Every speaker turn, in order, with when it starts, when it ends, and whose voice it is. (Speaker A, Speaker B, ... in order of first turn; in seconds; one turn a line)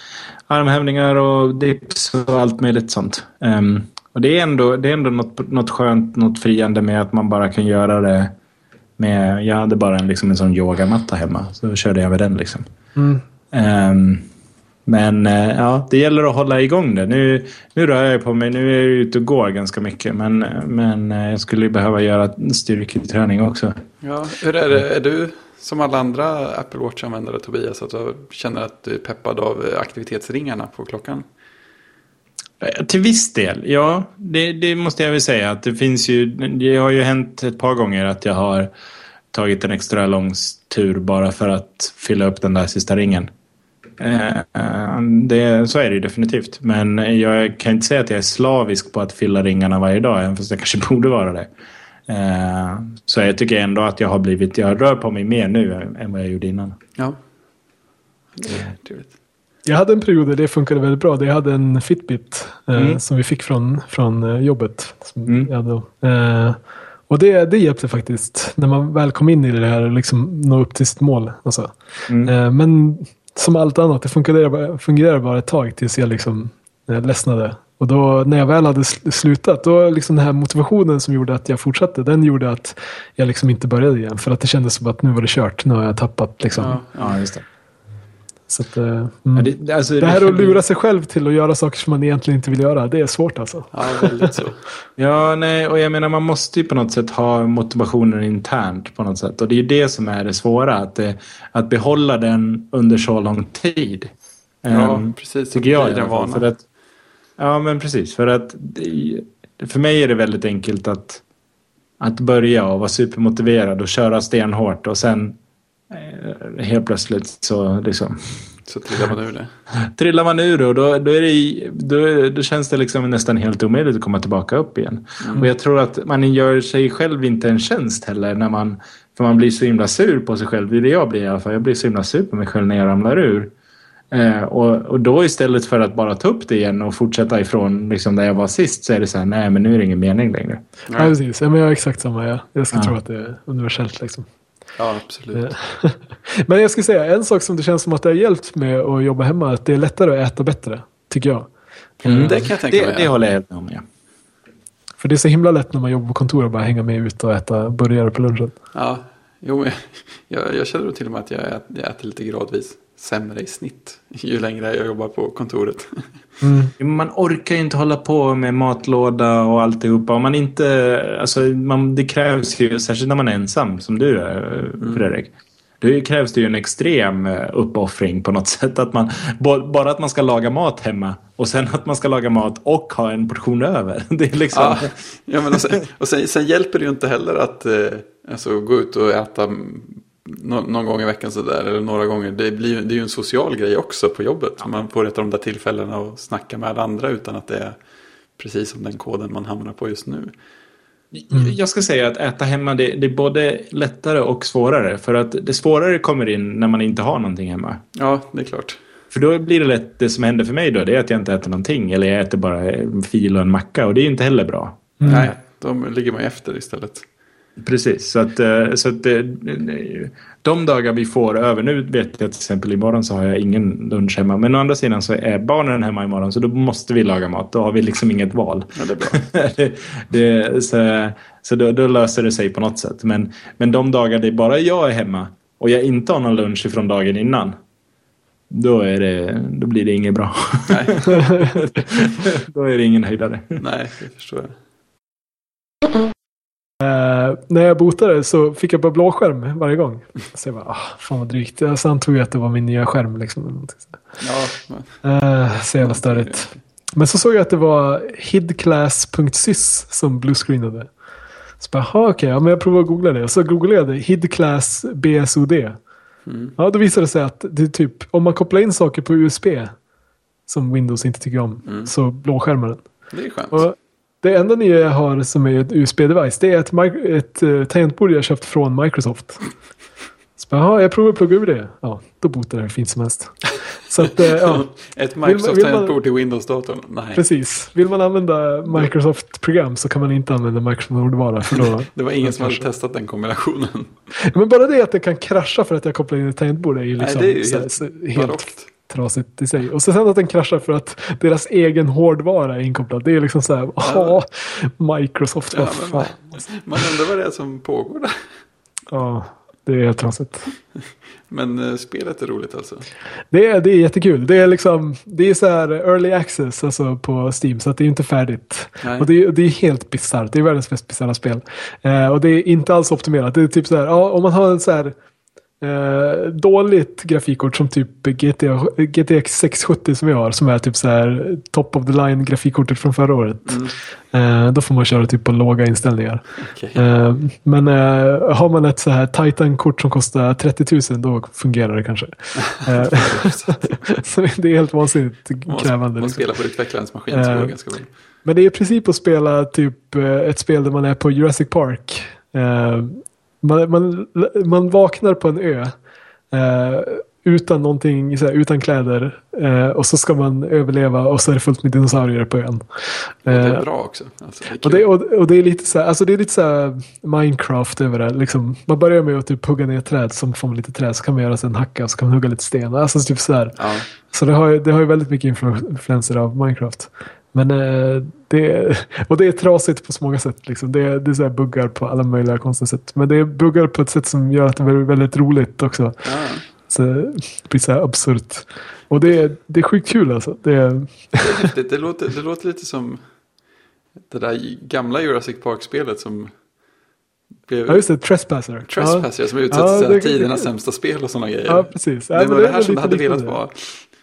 Speaker A: 0.5-8.3
Speaker A: 9.0-12.6
Speaker B: 12.9-13.2
Speaker A: 13.5-14.3
Speaker A: 14.9-23.7
Speaker C: 24.0-31.2
Speaker A: 32.6-38.7
Speaker A: 39.3-43.3
Speaker A: 44.0-51.5
Speaker A: 52.1-56.8
Speaker C: 58.3-59.1
Speaker B: 59.6-66.6
Speaker A: 62.7-63.0
Speaker A: 65.2-65.5
Speaker B: 67.1-86.8
Speaker A: 72.1-72.3
Speaker C: 86.5-87.2
Speaker A: 87.0-87.4
Speaker B: 88.5-89.5
Speaker A: 89.3-90.6
Speaker B: 90.0-94.4
Speaker C: 93.7-94.6
Speaker A: 95.0-104.1
Speaker A: 104.6-106.6
Speaker C: 104.7-106.5
Speaker A: 107.4-111.2
Speaker A: 112.0-115.4
Speaker A: 115.9-118.5
Speaker C: 118.7-119.5
Speaker A: 119.9-133.5
Speaker C: 125.2-125.5
Speaker A: 134.1-140.6
Speaker C: 140.9-141.1
Speaker B: 140.9-144.2
Speaker A: 142.7-143.0
Speaker C: 144.8-145.5
Speaker B: 145.3-151.5
Speaker C: 152.0-153.1
Speaker A: 152.0-153.8
Speaker B: 155.0-158.5
Speaker C: 158.7-166.1
Speaker B: 166.4-166.7
Speaker A: 166.8-184.9
Speaker C: 174.8-175.1
Speaker C: 184.5-197.8
Speaker C: 198.4-200.3
Speaker A: 201.1-207.8
Speaker C: 207.9-208.8
Speaker A: 209.1-215.2
Speaker B: 215.0-215.3
Speaker C: 215.0-217.0
Speaker A: 217.6-237.5
Speaker C: 228.7-229.2
Speaker A: 238.5-243.6
Speaker C: 240.7-241.1
Speaker C: 243.6-244.5
Speaker B: 246.8-254.0
Speaker C: 254.2-255.0
Speaker B: 255.0-260.9
Speaker C: 255.8-256.6
Speaker B: 261.6-265.8
Speaker C: 266.2-266.6
Speaker B: 266.6-269.7
Speaker B: 270.5-272.8
Speaker C: 271.6-271.9
Speaker C: 273.1-273.6
Speaker B: 273.5-279.5
Speaker B: 280.4-284.7
Speaker C: 284.4-287.2
Speaker B: 285.2-286.0
Speaker B: 287.1-292.7
Speaker C: 291.9-293.9
Speaker B: 294.2-306.9
Speaker C: 297.0-298.7
Speaker C: 303.8-304.2
Speaker C: 305.5-308.2
Speaker B: 308.9-310.5
Speaker C: 311.3-312.9
Speaker B: 313.3-324.9
Speaker C: 318.8-319.1
Speaker B: 325.6-346.3
Speaker C: 333.4-333.7
Speaker C: 336.4-336.9
Speaker C: 342.7-343.8
Speaker C: 345.4-347.9
Speaker B: 347.1-347.6
Speaker B: 348.2-355.7
Speaker B: 356.3-363.7
Speaker C: 363.2-364.9
Speaker B: 364.6-391.5
Speaker C: 373.6-373.9
Speaker C: 386.0-386.4
Speaker C: 391.2-393.0
Speaker C: 394.1-396.3
Speaker C: 397.5-397.8
Speaker B: 397.7-400.5
Speaker C: 398.6-403.9
Speaker B: 401.4-403.4